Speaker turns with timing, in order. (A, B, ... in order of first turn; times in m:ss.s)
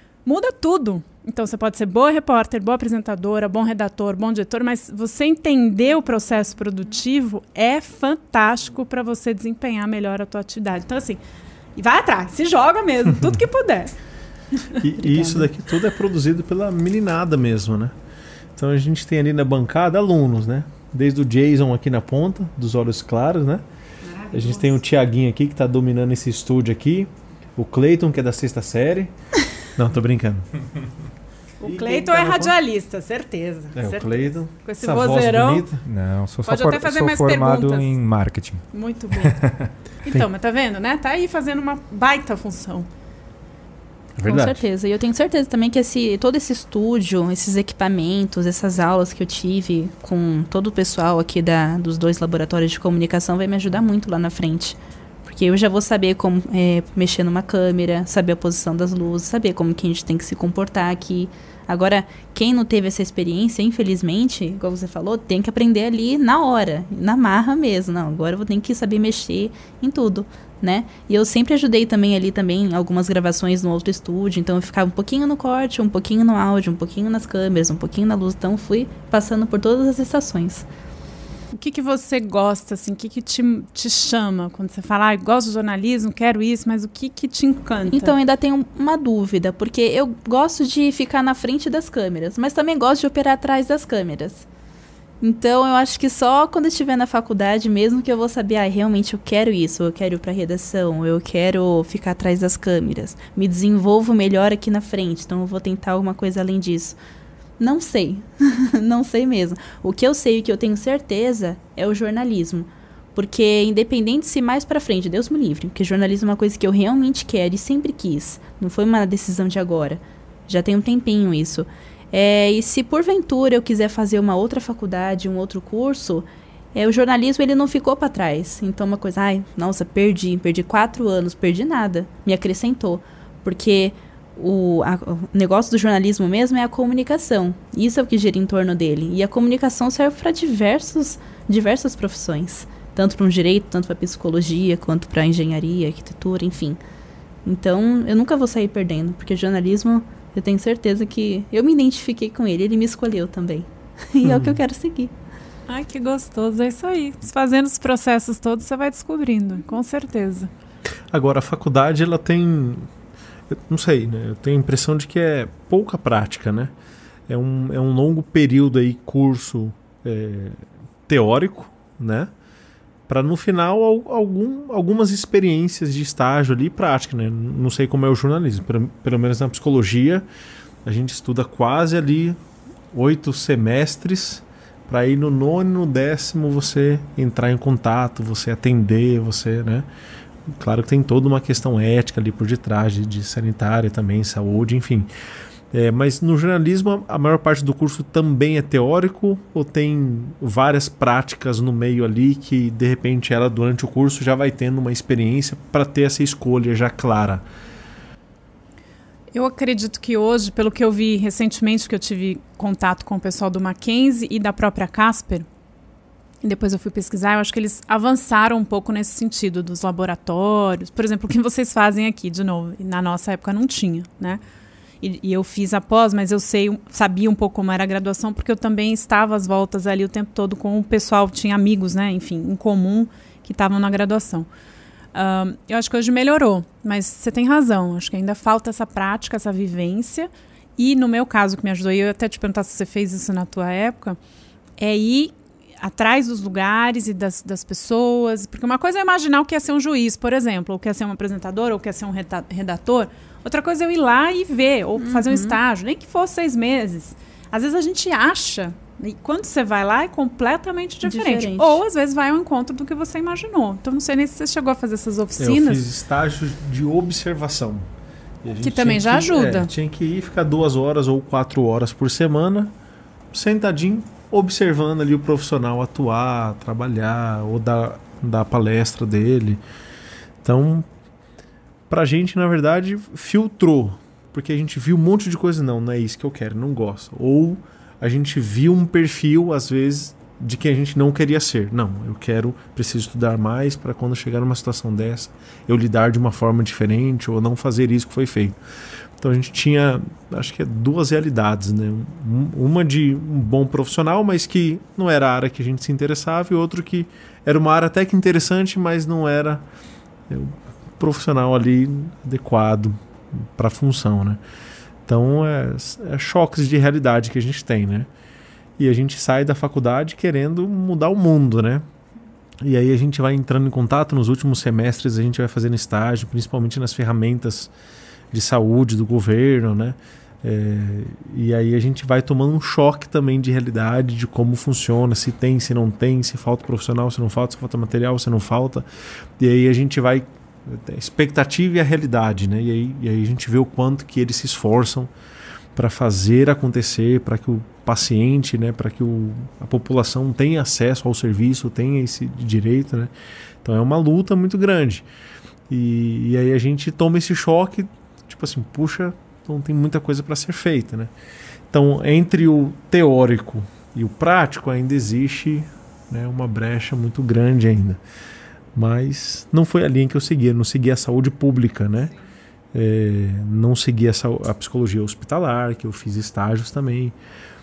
0:00.2-0:11.2 A
0:11.8-0:13.9 A
0:14.6-0:15.4 A
0:14.8-0:17.9 B
0:18.6-0:23.6 B
0:24.2-0:24.8 A
0:24.3-0:29.1 B
0:29.8-0:30.5 B
0:31.6-0:35.7 A
0:31.6-0:32.6 B
0:33.8-0:35.8 B
0:35.9-0:38.7 C
0:36.5-0:37.9 A
0:38.7-0:39.4 A
0:39.2-0:39.7 C
0:40.0-0:42.9 A
0:44.2-0:44.6 B
0:44.2-1:20.7 D
1:21.5-1:28.2 A
1:27.9-1:34.5 D
1:35.2-1:47.0 D
1:47.6-2:26.8 D
2:27.4-2:35.1 D
2:34.2-2:34.6 B
2:35.7-2:40.5 A
2:41.1-2:42.9 B
2:43.5-2:46.7 B
2:47.3-2:52.3 B
2:53.1-3:00.2 B
3:00.8-3:02.4 B
3:02.9-3:09.9 B
3:10.5-3:15.1 B
3:15.7-3:27.4 B
3:29.3-3:35.5 A
3:36.4-3:44.4 A
3:45.0-3:54.5 A
3:55.1-4:04.2 A
4:04.8-4:25.8 A
4:15.0-4:15.6 D
4:21.0-4:21.8 D
4:25.4-4:27.9 B
4:28.4-4:32.7 B
4:28.6-4:29.7 A
4:33.3-4:39.6 B
4:40.4-4:40.9 B
4:41.9-4:58.6 B
4:59.2-5:09.6 B
5:10.3-5:14.4 B
5:15.1-5:18.1 B
5:18.8-5:21.8 B
5:22.6-5:27.7 B
5:28.3-5:38.9 B
5:39.4-5:45.1 B
5:45.8-5:55.1 B
5:55.7-6:01.1 B
6:01.7-6:08.0 B
6:08.8-6:12.1 B
6:12.7-6:17.2 B